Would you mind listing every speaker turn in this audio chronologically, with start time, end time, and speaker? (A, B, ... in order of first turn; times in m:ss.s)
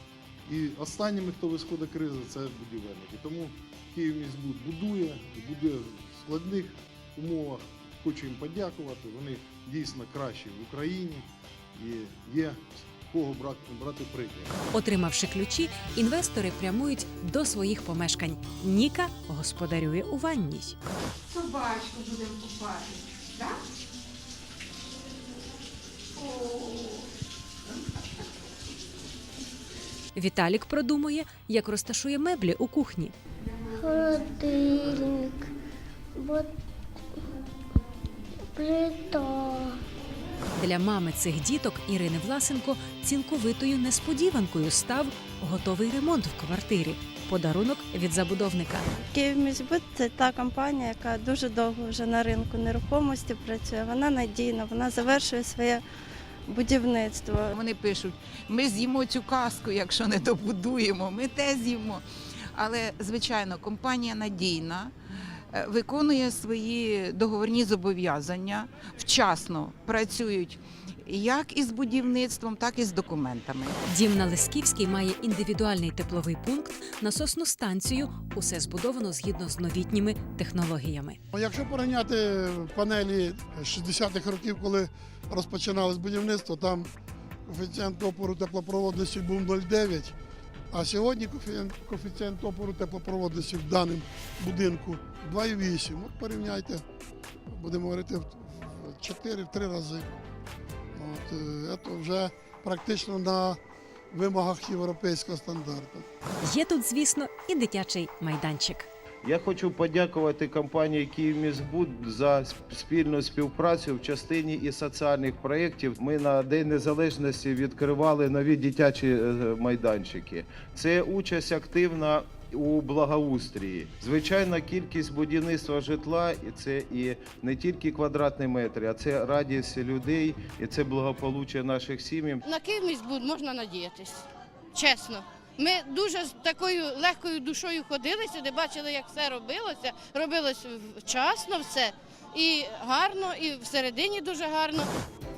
0:00.5-0:14.5 A
0:14.7-0:20.8 B
0:21.3-0:23.6 C
0:26.2-0:27.1 C
0:30.2-0:33.1 B
0:33.8-0:35.5 D
0:36.2-0:36.5 D
0:38.5-0:39.7 D
0:40.6-0:48.8 B
0:49.0-0:55.8 E
0:56.5-0:57.5 E
0:57.5-1:04.9 C
1:05.5-1:13.8 C
1:13.9-1:21.2 B
1:21.3-1:26.9 F
1:27.5-1:30.2 F
1:30.7-1:36.8 F
1:37.5-1:40.1 F
1:41.0-1:43.6 F
1:44.1-1:46.1 F
1:46.4-1:48.9 B
1:49.2-2:12.4 G
2:12.5-2:24.9 H